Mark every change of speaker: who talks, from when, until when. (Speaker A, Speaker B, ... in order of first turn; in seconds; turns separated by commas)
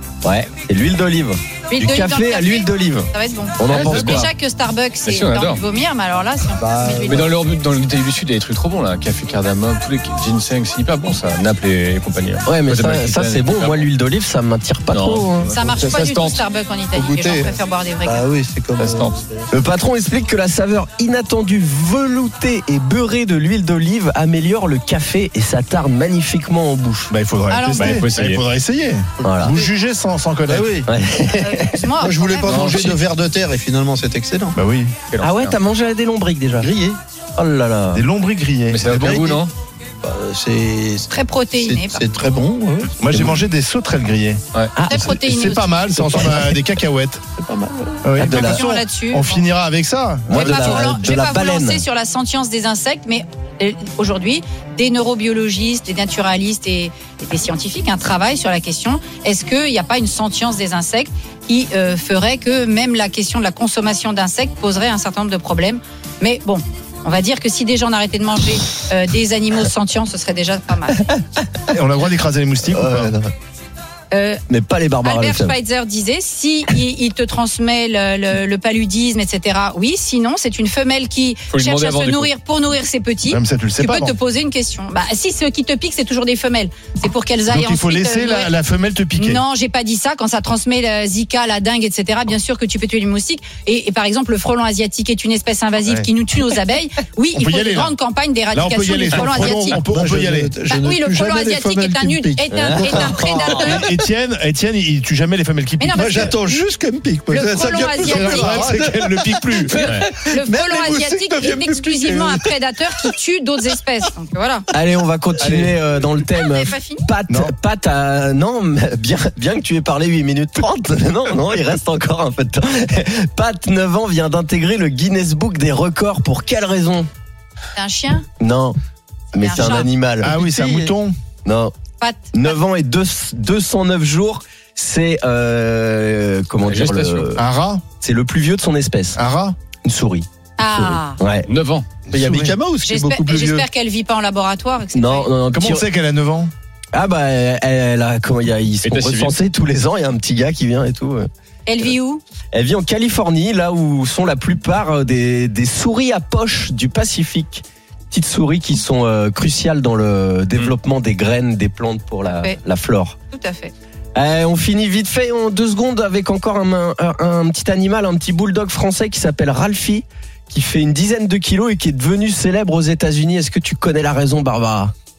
Speaker A: 0.2-4.3, Speaker B: 1.7-7.3, Speaker C: 3.7-4.3, Speaker C: 5.0-5.6, Speaker D: 6.6-7.3, Speaker C: 7.1-13.9, Speaker A: 12.5-15.6, Speaker C: 14.9-16.4, Speaker B: 15.5-18.2, Speaker D: 15.6-16.1, Speaker D: 16.9-19.5, Speaker C: 18.8-19.2, Speaker A: 19.5-27.1, Speaker E: 27.1-30.8, Speaker B: 27.5-28.0, Speaker C: 27.7-28.4, Speaker A: 29.2-29.6, Speaker D: 29.2-29.7, Speaker D: 30.5-30.9, Speaker A: 30.9-31.9, Speaker B: 31.3-32.9, Speaker D: 32.0-34.6, Speaker C: 32.5-33.0, Speaker E: 34.5-35.0, Speaker C: 35.1-35.6, Speaker A: 35.2-36.7, Speaker D: 36.6-37.0, Speaker A: 37.4-38.1, Speaker E: 37.9-39.3, Speaker C: 38.7-39.5, Speaker D: 38.9-39.5, Speaker D: 40.0-43.5, Speaker B: 41.1-42.0, Speaker E: 43.0-47.2, Speaker A: 44.8-45.0, Speaker B: 44.9-45.9, Speaker D: 45.9-46.6, Speaker D: 47.4-48.1, Speaker E: 48.0-51.0, Speaker A: 48.2-48.6, Speaker B: 48.3-49.5, Speaker A: 50.3-51.8, Speaker B: 50.3-71.0, Speaker E: 71.7-73.2, Speaker A: 72.7-73.3, Speaker B: 74.1-74.4, Speaker A: 74.5-75.6, Speaker B: 75.0-88.5, Speaker C: 81.5-82.3, Speaker E: 83.3-84.2, Speaker E: 87.5-89.4, Speaker B: 89.2-99.8, Speaker E: 97.3-98.0, Speaker E: 98.5-100.5, Speaker D: 99.1-104.0, Speaker B: 100.7-103.9, Speaker A: 102.5-103.4, Speaker E: 102.8-106.4, Speaker B: 105.8-106.6, Speaker D: 105.9-113.2, Speaker B: 107.3-108.7, Speaker E: 108.0-110.0, Speaker B: 110.2-114.7, Speaker A: 114.7-127.1, Speaker E: 115.4-115.9, Speaker D: 115.4-115.7, Speaker B: 116.3-117.1, Speaker B: 127.8-128.3, Speaker A: 128.4-128.8, Speaker A: 129.3-130.4, Speaker B: 129.4-129.9, Speaker E: 129.5-131.1, Speaker D: 130.3-130.9, Speaker A: 131.4-131.7, Speaker B: 132.0-132.6, Speaker A: 132.3-137.4, Speaker C: 136.7-137.3, Speaker E: 137.4-137.8, Speaker A: 138.0-139.2, Speaker E: 139.2-139.6, Speaker A: 139.8-141.5, Speaker B: 140.6-141.2, Speaker C: 141.4-141.9, Speaker E: 142.1-142.6, Speaker D: 142.1-143.7, Speaker B: 142.8-145.3, Speaker A: 144.9-145.9, Speaker E: 145.5-146.5, Speaker A: 146.9-151.3, Speaker C: 148.8-149.4, Speaker B: 151.7-152.2, Speaker A: 152.5-163.2, Speaker B: 162.3-162.6, Speaker B: 163.3-163.7, Speaker A: 164.2-174.9